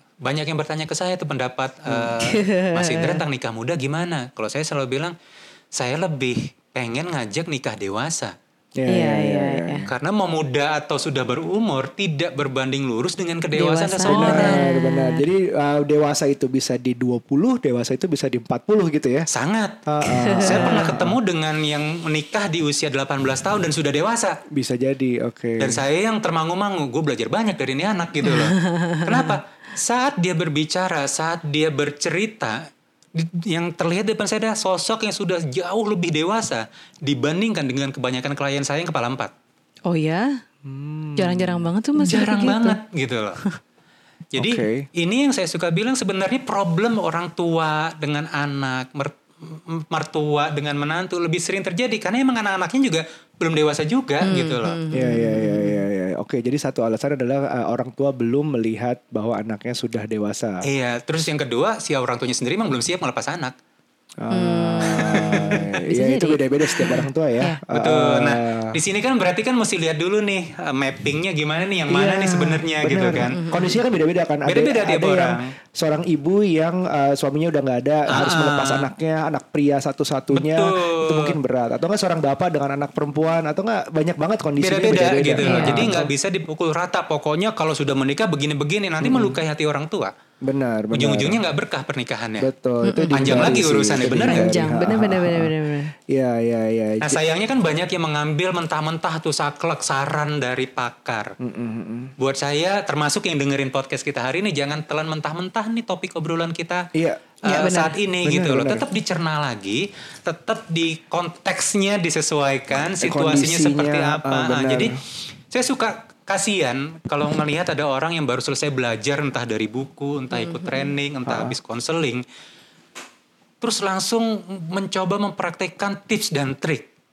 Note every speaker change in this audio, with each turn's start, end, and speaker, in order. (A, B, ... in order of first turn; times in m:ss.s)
0:00.2-0:05.2 A
0:01.9-0:02.1 B
0:02.2-0:03.2 C
0:05.7-0:08.4 A
0:08.8-0:09.9 B
0:08.9-0:09.9 C
0:09.9-0:14.6 A
0:13.6-0:15.2 C
0:14.1-0:19.3 B
0:19.3-0:19.8 A
0:19.9-0:21.2 B
0:20.1-0:20.9 C
0:20.4-0:24.4 A
0:24.5-0:25.8 B
0:25.6-0:39.3 A
0:28.2-0:29.4 C
0:39.9-0:40.4 C
0:40.6-0:41.7 B
0:41.2-0:42.8 C
0:42.0-0:43.4 A
0:44.3-0:54.8 A
0:44.4-0:44.9 B
0:54.2-0:55.9 C
0:54.9-1:00.7 B
1:00.6-1:03.6 A
1:04.2-1:08.8 B
1:04.3-1:05.2 C
1:05.0-1:05.6 A
1:05.9-1:07.6 C
1:07.7-1:13.4 A
1:11.9-1:26.1 B
1:13.3-1:13.8 C
1:14.4-1:15.6 A
1:18.1-1:18.9 A
1:20.3-1:21.4 A
1:24.6-1:30.1 A
1:25.4-1:26.0 C
1:29.0-1:29.4 B
1:30.4-1:31.4 B
1:30.9-1:32.5 A
1:32.4-1:35.5 B
1:32.8-1:35.9 C
1:33.1-1:34.5 A
1:36.1-1:37.2 B
1:37.0-1:41.4 A
1:41.4-1:42.2 B
1:42.2-1:46.9 A
1:46.9-1:47.2 B
1:47.4-1:55.0 A
1:47.4-1:48.0 C
1:48.2-1:48.9 B
1:52.9-1:55.0 B
1:55.5-2:02.2 A
2:00.3-2:00.9 C
2:01.3-2:01.6 B
2:03.6-2:06.9 A